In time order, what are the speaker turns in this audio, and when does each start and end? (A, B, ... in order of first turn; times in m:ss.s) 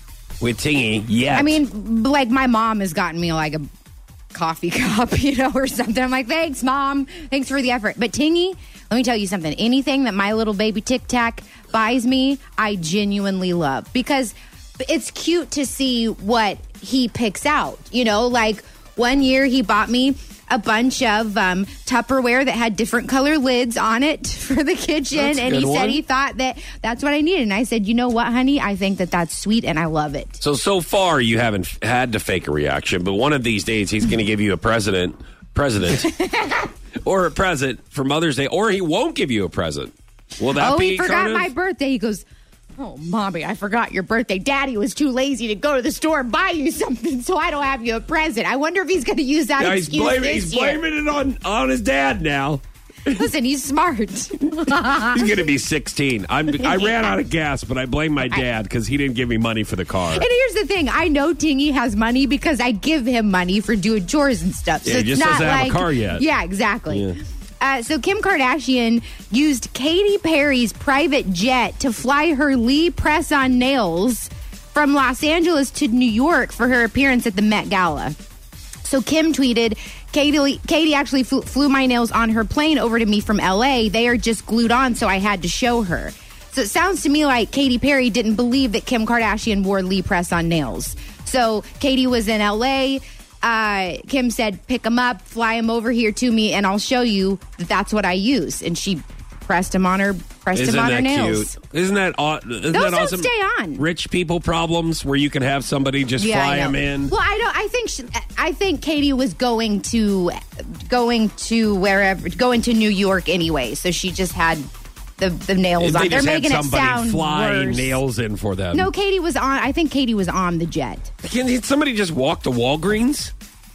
0:00.4-0:01.6 A
0:01.3-0:03.7 B
0:04.3-0:30.4 B
0:25.1-0:26.0 A
0:30.4-0:36.1 A
0:36.1-0:36.7 B
0:37.0-0:41.5 A
0:40.5-0:42.2 B
0:42.8-0:50.8 B
0:49.6-0:52.6 A
0:53.1-0:55.4 B
0:55.1-1:00.3 A
0:56.5-0:57.1 B
1:00.1-1:18.2 B
1:04.8-1:06.2 A
1:06.9-1:07.2 A
1:18.8-1:41.6 B
1:40.5-1:47.1 A
1:42.7-1:43.8 B
1:46.2-1:54.7 B
1:55.2-1:58.0 B
1:55.8-1:58.9 A
1:58.7-2:01.1 B
2:01.2-2:03.3 A